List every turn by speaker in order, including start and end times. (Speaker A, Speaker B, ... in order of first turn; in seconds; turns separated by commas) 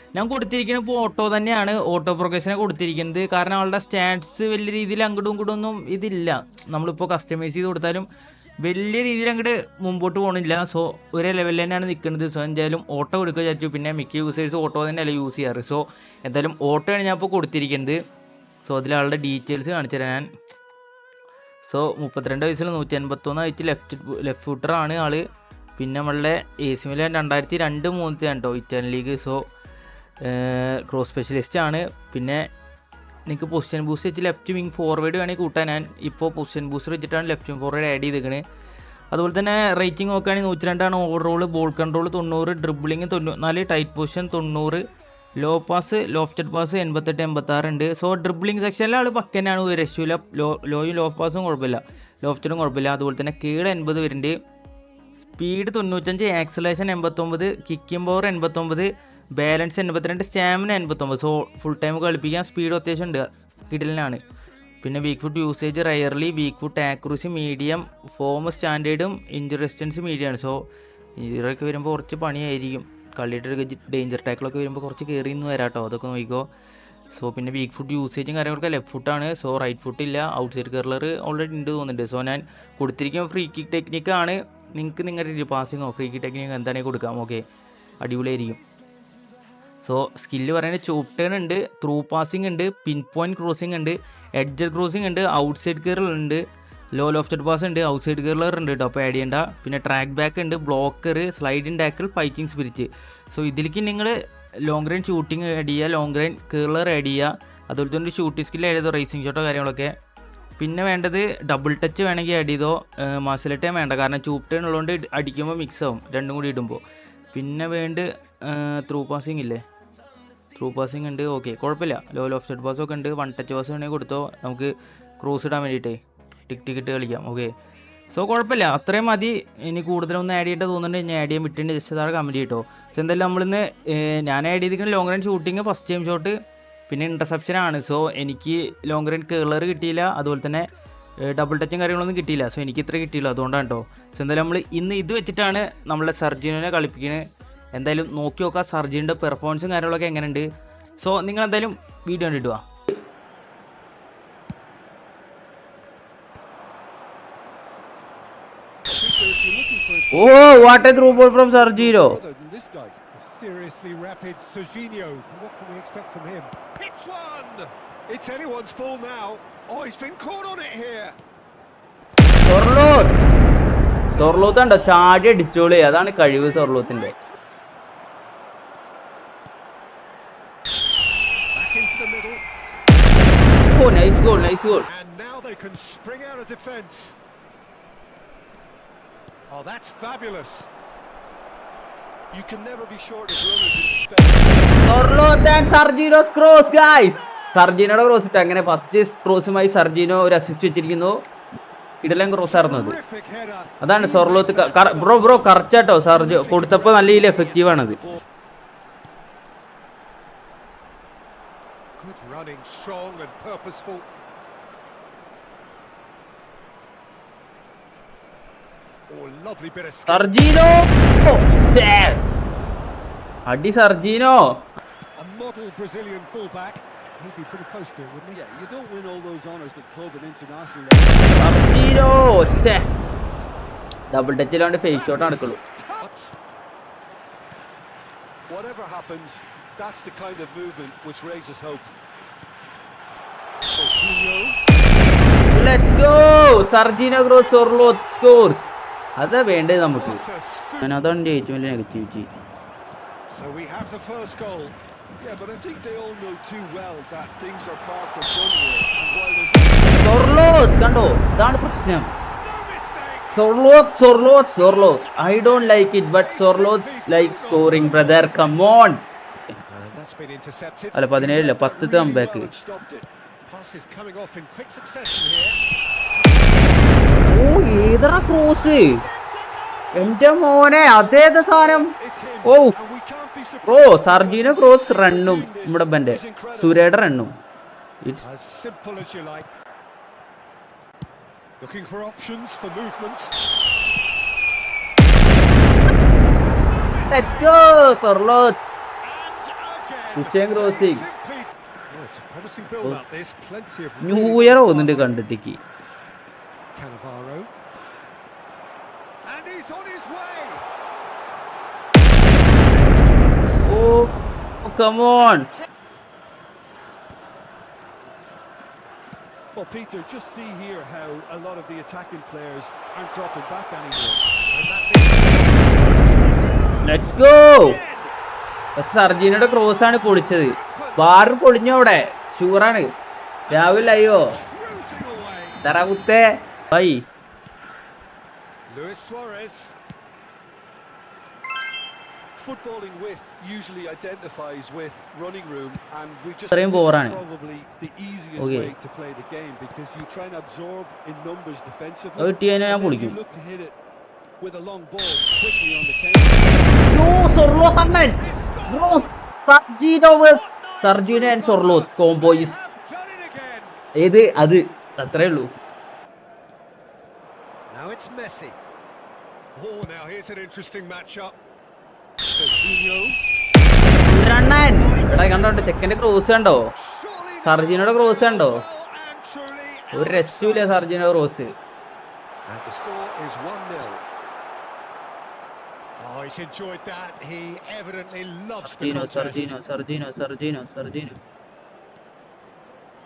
Speaker A: 0.1-8.1, Speaker A: 8.6-18.0, Speaker A: 18.6-20.2, Speaker A: 21.6-25.2, Speaker A: 25.8-29.4, Speaker A: 30.2-32.4, Speaker A: 33.3-38.4, Speaker A: 39.1-44.8, Speaker A: 45.4-54.3, Speaker A: 55.3-64.2, Speaker A: 64.8-70.6, Speaker A: 71.2-76.4, Speaker A: 77.1-87.4, Speaker A: 88.0-88.6, Speaker A: 89.8-96.4, Speaker A: 96.9-104.1, Speaker A: 104.7-109.9, Speaker A: 110.6-116.8, Speaker A: 117.3-119.6, Speaker A: 120.5-127.5, Speaker A: 128.1-136.3, Speaker A: 136.9-140.6, Speaker A: 141.2-147.2, Speaker A: 147.7-150.4, Speaker A: 151.0-152.6, Speaker B: 158.9-163.0, Speaker A: 160.1-162.2, Speaker C: 163.1-171.2, Speaker A: 172.4-173.1, Speaker A: 174.1-177.1, Speaker C: 181.5-182.4, Speaker A: 183.7-184.9, Speaker C: 183.8-184.2, Speaker C: 184.9-187.2, Speaker C: 189.5-190.7, Speaker B: 192.3-194.8, Speaker A: 194.8-201.2, Speaker A: 202.0-203.0, Speaker C: 202.4-205.4, Speaker A: 203.8-208.0, Speaker B: 204.0-208.2, Speaker C: 212.0-214.1, Speaker C: 219.1-220.8, Speaker A: 220.1-222.2, Speaker A: 223.5-224.6, Speaker C: 225.2-228.4, Speaker B: 228.3-232.6, Speaker A: 231.3-232.9, Speaker A: 234.1-235.6, Speaker C: 235.1-235.4, Speaker C: 235.9-236.3, Speaker B: 238.5-241.9, Speaker C: 243.7-244.6, Speaker A: 245.5-248.7, Speaker A: 249.2-250.2, Speaker C: 250.0-250.9, Speaker A: 250.8-252.3, Speaker C: 253.3-254.8, Speaker B: 255.2-260.3, Speaker A: 260.0-262.1, Speaker C: 262.3-263.5, Speaker A: 263.3-269.0, Speaker C: 264.5-268.6, Speaker B: 267.7-268.2, Speaker C: 269.7-271.1, Speaker A: 270.9-272.5, Speaker B: 271.1-273.1, Speaker C: 273.4-275.6, Speaker A: 277.2-279.0, Speaker C: 278.6-280.1, Speaker A: 279.9-281.9, Speaker B: 280.8-286.9, Speaker A: 282.4-282.8, Speaker A: 283.6-287.3, Speaker C: 288.2-289.4, Speaker C: 291.6-293.3, Speaker C: 296.8-297.7, Speaker A: 297.1-298.6, Speaker C: 299.0-305.1, Speaker A: 300.1-301.0, Speaker A: 304.0-305.6, Speaker C: 306.7-307.5, Speaker C: 309.2-310.6, Speaker C: 312.7-313.7, Speaker A: 313.6-314.1, Speaker A: 314.6-315.5, Speaker B: 319.5-324.4, Speaker C: 324.5-327.0, Speaker A: 326.8-327.8, Speaker C: 327.6-328.1, Speaker A: 328.8-332.9, Speaker C: 329.4-331.4, Speaker C: 333.5-335.6, Speaker A: 333.5-334.3, Speaker B: 334.1-334.5, Speaker A: 335.6-337.0, Speaker C: 338.7-339.8, Speaker B: 342.4-353.8, Speaker A: 346.5-347.2, Speaker A: 348.4-348.7, Speaker A: 352.2-353.1, Speaker B: 354.4-357.3, Speaker A: 356.9-362.6, Speaker C: 358.2-359.1, Speaker C: 360.3-363.8, Speaker A: 364.0-365.5, Speaker C: 367.7-368.6, Speaker C: 369.6-371.3, Speaker C: 372.4-373.1, Speaker A: 374.0-376.7, Speaker C: 374.6-375.9, Speaker C: 376.9-380.9, Speaker A: 377.4-378.6, Speaker A: 379.9-381.5, Speaker C: 382.5-383.8, Speaker B: 382.7-383.1, Speaker C: 386.0-389.6, Speaker A: 388.6-391.2